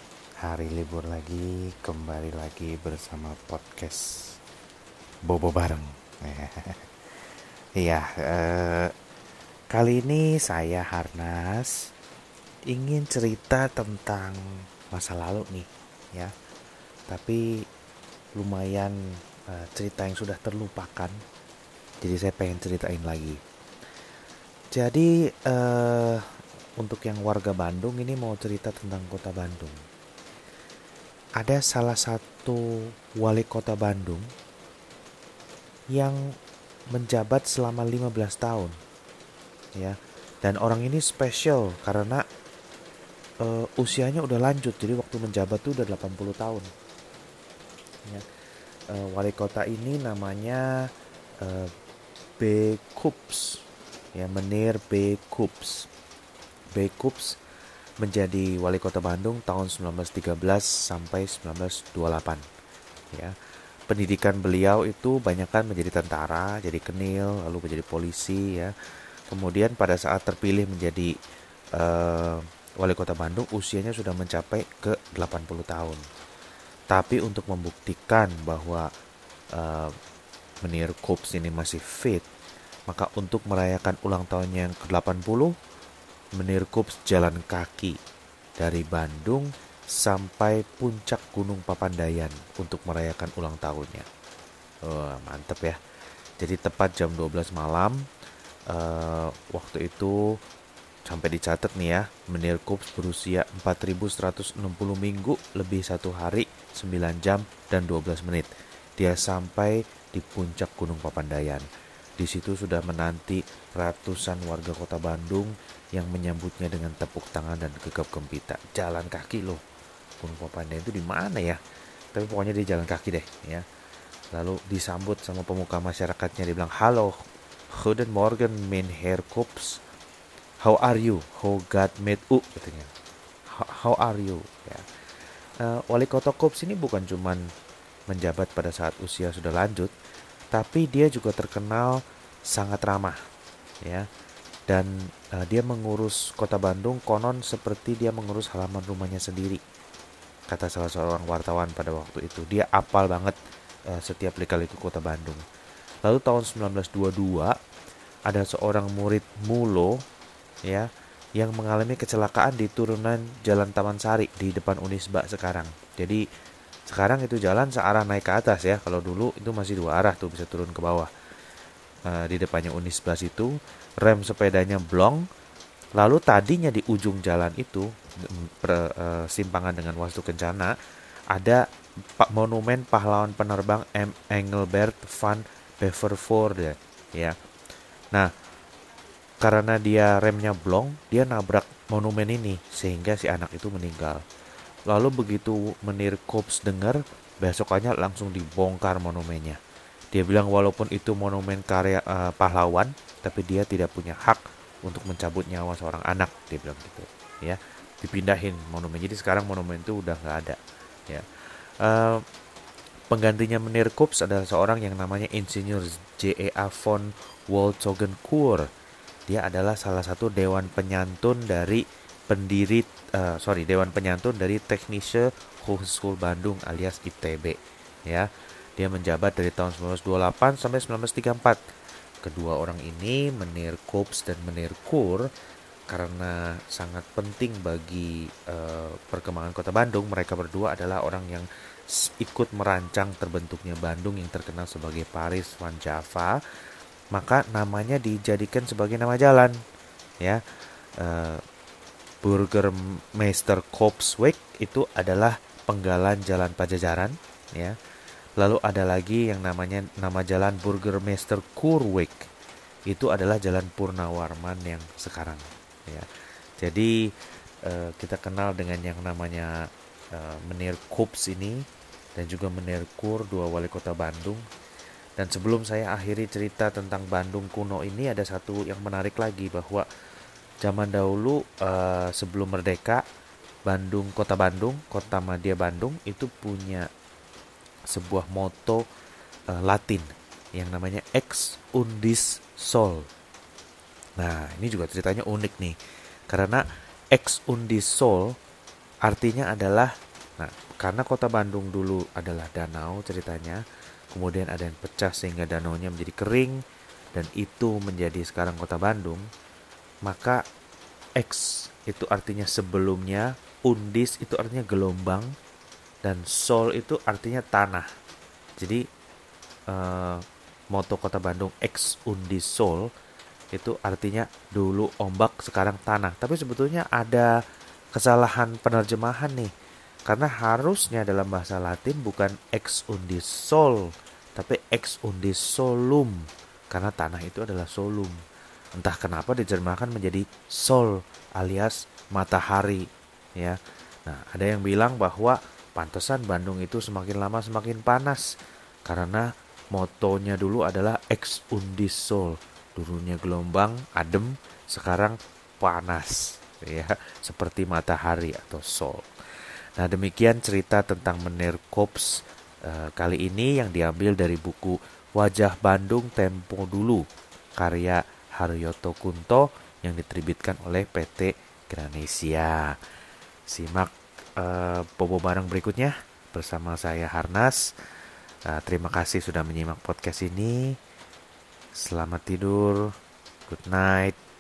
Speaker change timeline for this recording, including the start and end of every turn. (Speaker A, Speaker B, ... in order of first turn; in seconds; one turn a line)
Speaker A: 0.4-4.4
Speaker A: 5.3-6.9
Speaker A: 7.8-8.9
Speaker A: 9.7-11.8
Speaker A: 12.7-16.3
Speaker A: 17.1-17.4
Speaker A: 18.4-19.0
Speaker A: 19.5-21.2
Speaker A: 22.0-23.4
Speaker A: 24.7-26.3
Speaker A: 26.8-29.8
Speaker A: 31.4-34.3
Speaker A: 35.9-36.2
Speaker A: 36.9-38.8
Speaker A: 39.8-42.2
Speaker A: 43.4-46.7
Speaker A: 48.9-50.7
Speaker A: 51.4-51.7
Speaker A: 52.4-53.6
Speaker A: 54.1-55.9
Speaker A: 56.8-57.4
Speaker A: 58.0-62.4
Speaker A: 63.9-68.7
Speaker A: 69.3-71.1
Speaker A: 71.8-76.0
Speaker A: 76.9-78.8
Speaker A: 79.6-79.9
Speaker A: 80.6-82.3
Speaker A: 82.9-85.5
Speaker A: 86.4-88.0
Speaker A: 88.6-94.1
Speaker A: 94.9-95.8
Speaker A: 96.4-98.0
Speaker A: 98.7-100.2
Speaker A: 101.1-111.7
Speaker A: 112.2-119.6
Speaker A: 120.2-121.6
Speaker A: 122.1-123.7
Speaker A: 124.3-127.1
Speaker A: 127.8-129.8
Speaker A: 130.6-132.9
Speaker A: 133.6-134.8
Speaker A: 135.6-137.4
Speaker A: 138.1-139.9
Speaker A: 140.5-143.2
Speaker A: 144.7-149.6
Speaker A: 150.5-153.4
Speaker A: 153.9-155.4
Speaker A: 156.1-157.5
Speaker A: 158.3-159.9
Speaker A: 160.7-166.2
Speaker A: 166.9-171.1
Speaker A: 172.1-175.2
Speaker A: 176.0-180.7
Speaker A: 181.3-181.6
Speaker A: 182.2-187.3
Speaker A: 189.4-194.2
Speaker A: 194.9-199.6
Speaker A: 200.1-210.6
Speaker A: 211.1-212.2
Speaker A: 213.1-218.7
Speaker A: 219.3-231.6
Speaker A: 232.2-235.3
Speaker A: 235.9-241.5
Speaker A: 242.2-246.4
Speaker A: 247.1-249.6
Speaker A: 251.0-251.4
Speaker A: 252.2-257.8
Speaker A: 258.4-262.2
Speaker A: 262.9-266.1
Speaker A: 266.6-266.9
Speaker A: 267.6-269.5
Speaker A: 270.1-271.6
Speaker A: 272.2-274.4
Speaker A: 275.2-279.9
Speaker A: 280.6-283.0
Speaker A: 283.7-286.9
Speaker A: 287.9-288.8
Speaker A: 289.5-293.1
Speaker A: 294.2-295.8
Speaker A: 296.3-296.6
Speaker A: 297.1-298.3
Speaker A: 299.1-306.6
Speaker A: 307.1-309.3
Speaker A: 310.1-310.4
Speaker A: 311.2-315.3
Speaker A: 316.0-317.9
Speaker A: 319.7-320.2
Speaker A: 320.7-322.9
Speaker A: 323.5-327.3
Speaker A: 327.9-329.5
Speaker A: 330.1-336.2
Speaker A: 336.7-338.2
Speaker A: 338.8-342.9
Speaker A: 343.4-348.3
Speaker A: 348.9-359.1
Speaker A: 359.8-362.1
Speaker A: 362.7-367.0
Speaker A: 367.6-372.8
Speaker A: 373.5-377.6
Speaker A: 378.5-380.8
Speaker A: 381.8-382.9
Speaker A: 383.5-384.2